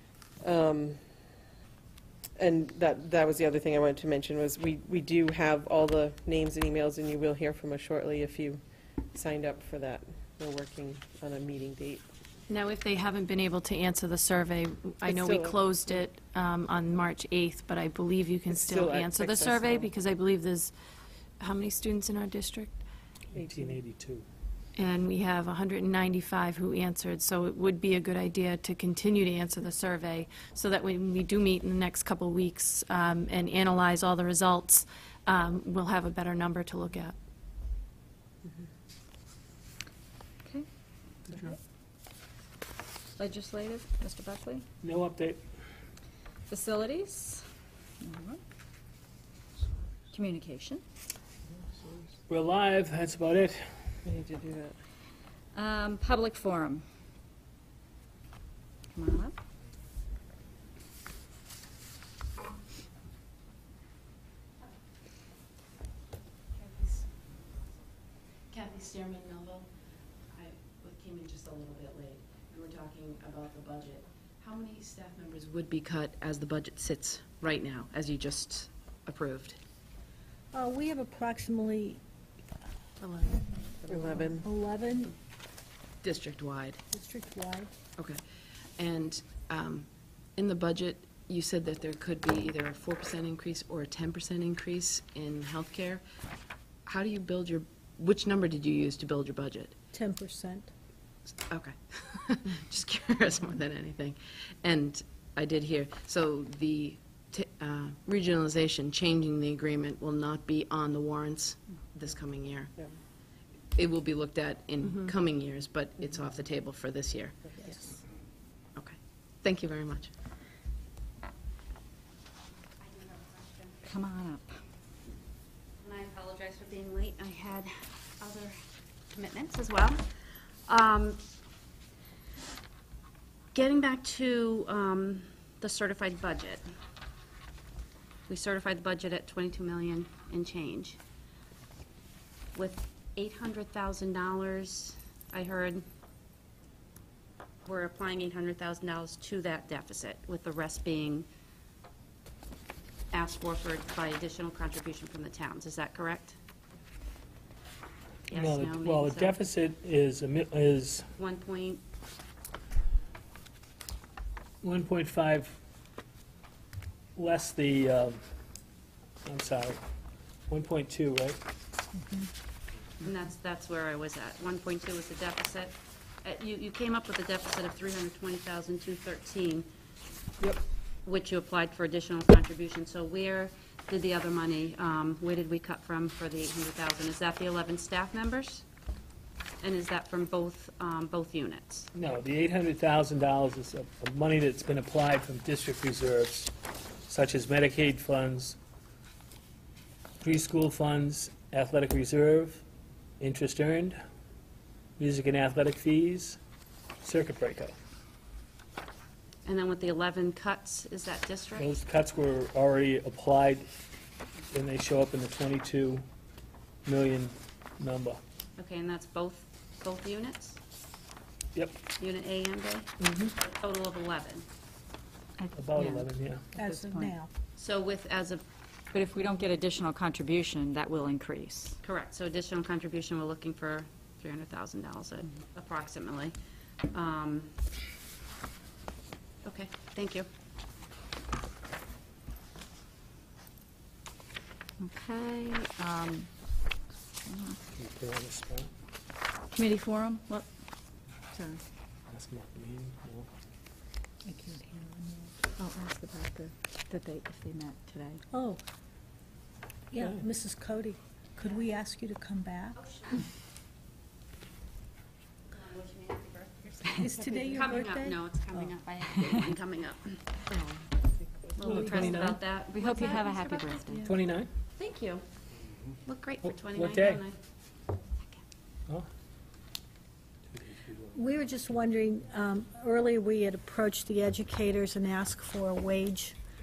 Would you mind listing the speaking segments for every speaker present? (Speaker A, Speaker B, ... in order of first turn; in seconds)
Speaker A: 0.4-1.0, 2.4-12.0, 15.0-15.6, 18.5-19.9, 23.4-23.7, 54.0-54.7, 83.9-84.5
Speaker B: 12.5-20.7, 21.4-22.8, 24.7-37.1
Speaker C: 23.3-24.2, 41.3-41.6, 44.8-45.4, 52.3-53.7, 158.3-161.1, 164.6-165.6, 167.2-168.2, 169.2-169.8, 170.5-171.4, 191.9-196.5, 197.1-198.6, 200.2-202.6, 203.2-203.9, 205.0-206.4, 207.0-207.8, 211.6-213.7, 214.5-216.0, 216.8-218.2, 225.5-226.4, 247.7-248.7, 252.1-253.3, 271.6-272.4, 274.0-274.5, 276.4-277.2, 280.6-281.0
Speaker D: 43.2-44.6, 46.5-47.4, 48.0-48.4, 50.1-50.8, 55.5-56.8, 58.9-59.3, 123.9-124.5, 225.4-227.1, 228.9-231.8, 244.8-246.3, 247.2-247.6, 249.5-250.5, 251.3-251.6, 255.6-258.2, 272.7-274.1
Speaker E: 66.6-67.0, 68.5-69.7, 70.3-79.6, 86.0-86.8, 88.8-96.0, 96.8-99.8, 101.5-112.7, 113.7-117.5, 118.8-120.1
Speaker F: 80.5-82.0, 83.0-85.1, 86.9-87.7, 99.9-100.7, 171.9-172.3, 226.6-227.3, 254.2-255.5, 258.3-258.6, 259.9-263.0, 266.9-268.7, 271.7-272.3, 281.1-286.4
Speaker G: 122.8-123.8, 125.8-128.6, 129.1-130.0, 130.7-131.2, 133.5-136.6, 138.3-141.0, 142.5-145.8, 147.7-151.3, 153.1-156.3, 158.3-159.3, 161.2-161.8, 173.0-179.7, 181.0-188.6, 189.6-191.9, 209.4-211.8, 218.6-220.6, 222.0-224.4, 227.6-228.4, 231.8-236.3, 236.9-237.5, 239.4-240.3, 265.5-270.2, 271.6-274.0, 274.8-275.2, 276.0-277.4